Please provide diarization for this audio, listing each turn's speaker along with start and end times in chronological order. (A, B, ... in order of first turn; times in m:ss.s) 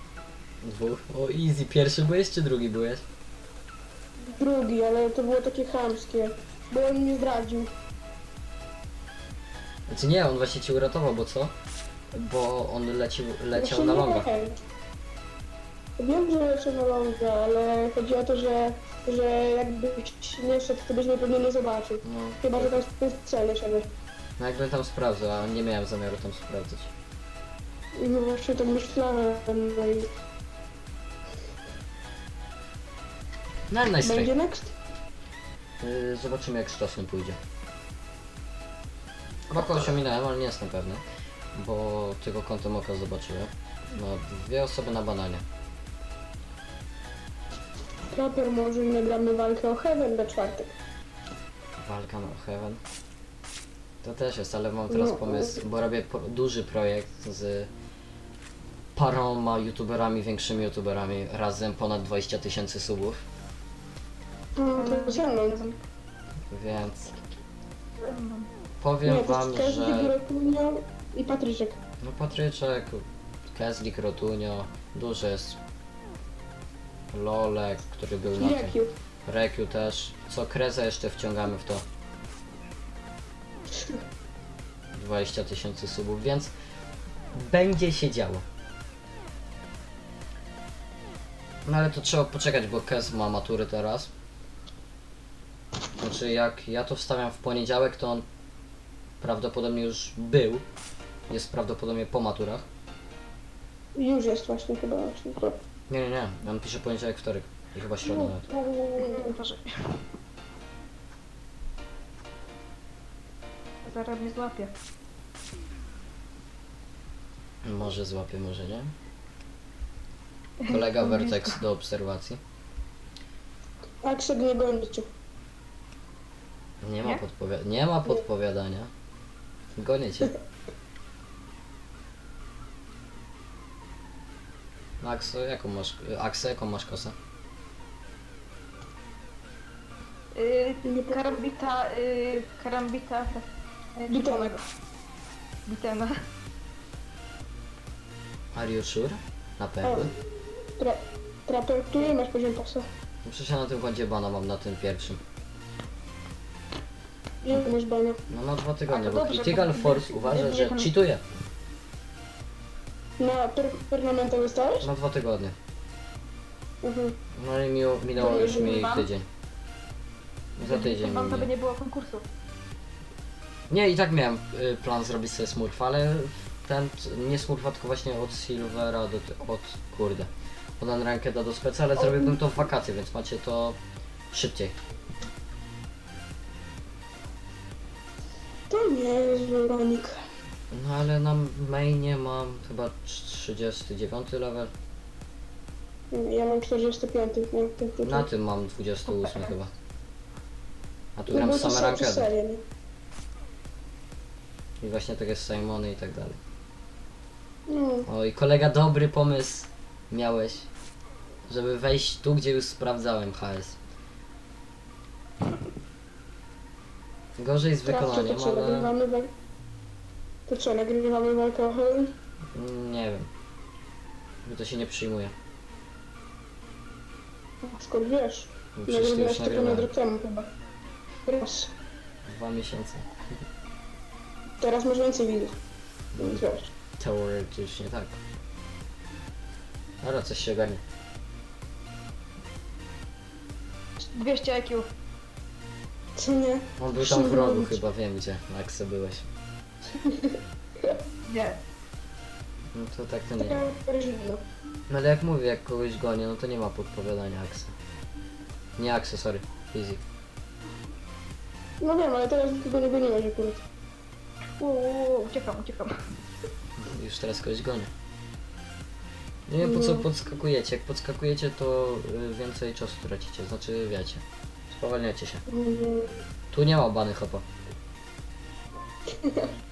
0:00.6-0:03.0 A
0:04.3-0:07.7 B
0:09.9-0:11.5 A
0:12.1-0:14.3 A
0:13.5-0:14.6 B
0:16.0-0:23.9 B
0:22.0-0:22.8 A
0:24.4-0:26.9 A
0:28.0-0:30.1 B
0:33.7-0:34.3 A
0:34.0-0:34.7 B
0:35.8-0:37.4 A
0:39.5-0:41.0 A
0:39.6-0:39.9 B
0:41.5-0:45.4 A
0:48.1-0:50.7 B
0:51.8-0:52.8 A
0:54.0-0:57.7 A
0:54.9-0:55.6 B
0:59.0-1:03.2 A
1:04.6-1:05.6 B
1:04.8-1:05.8 C
1:06.5-1:07.2 A
1:08.0-1:08.5 C
1:08.8-1:10.1 A
1:09.0-1:11.8 B
1:12.0-1:15.6 A
1:17.1-1:21.8 A
1:18.4-1:18.9 B
1:25.0-1:26.5 A
1:27.3-1:28.4 A
1:31.7-1:34.1 A
1:36.0-1:38.2 A
1:39.2-1:40.6 A
1:41.3-1:42.7 A
1:44.0-1:45.6 B
1:45.9-1:48.5 A
1:48.1-1:50.0 C
1:48.5-1:49.4 B
1:53.8-1:54.7 C
1:57.6-1:58.9 A
2:00.6-2:01.6 C
2:00.7-2:02.4 A
2:04.0-2:05.1 B
2:06.8-2:08.9 A
2:09.8-2:10.3 A
2:15.0-2:17.2 A
2:20.4-2:24.6 C
2:20.8-2:21.4 B
2:24.1-2:24.6 B
2:25.7-2:26.1 C
2:28.5-2:30.1 A
2:29.8-2:30.1 B
2:30.8-2:32.9 B
2:33.2-2:35.2 A
2:37.4-2:38.2 B
2:38.3-2:41.2 A
2:38.9-2:40.9 C
2:43.2-2:44.9 B
2:44.8-2:45.6 A
2:46.8-2:47.2 B
2:47.4-2:49.2 A
2:48.2-2:49.0 B
2:48.2-2:49.1 C
2:50.6-2:51.5 A
2:50.6-2:52.2 C
2:53.7-3:03.8 A
3:02.0-3:02.4 B
3:04.3-3:04.8 A
3:08.7-3:10.1 B
3:10.7-3:14.7 A
3:16.1-3:18.3 B
3:18.0-3:19.7 A
3:21.2-3:22.3 A
3:21.3-3:22.6 B
3:24.8-3:26.4 A
3:27.7-3:28.1 B
3:28.1-3:30.7 A
3:31.5-3:33.8 A
3:37.4-3:38.9 A
3:37.8-3:39.3 B
3:40.5-3:42.1 B
3:42.6-3:43.3 A
3:44.4-3:45.3 A
3:47.6-3:50.5 B
3:48.8-3:49.9 A
3:51.3-3:51.7 B
3:52.3-3:53.1 A
3:54.6-3:55.6 B
3:56.1-3:56.4 A
3:56.2-3:56.7 B
3:57.0-3:58.2 A
4:00.0-4:00.8 A
4:04.0-4:04.9 C
4:06.2-4:07.8 B
4:06.8-4:09.3 A
4:10.0-4:10.4 B
4:11.2-4:11.6 C
4:12.7-4:13.7 A
4:13.4-4:14.4 B
4:14.9-4:17.7 A
4:18.8-4:20.0 A
4:21.8-4:23.6 B
4:24.6-4:26.0 C
4:26.8-4:27.9 A
4:29.5-4:35.4 A
4:29.6-4:30.1 B
4:35.5-4:36.1 B
4:36.5-4:37.4 A
4:39.2-4:39.5 B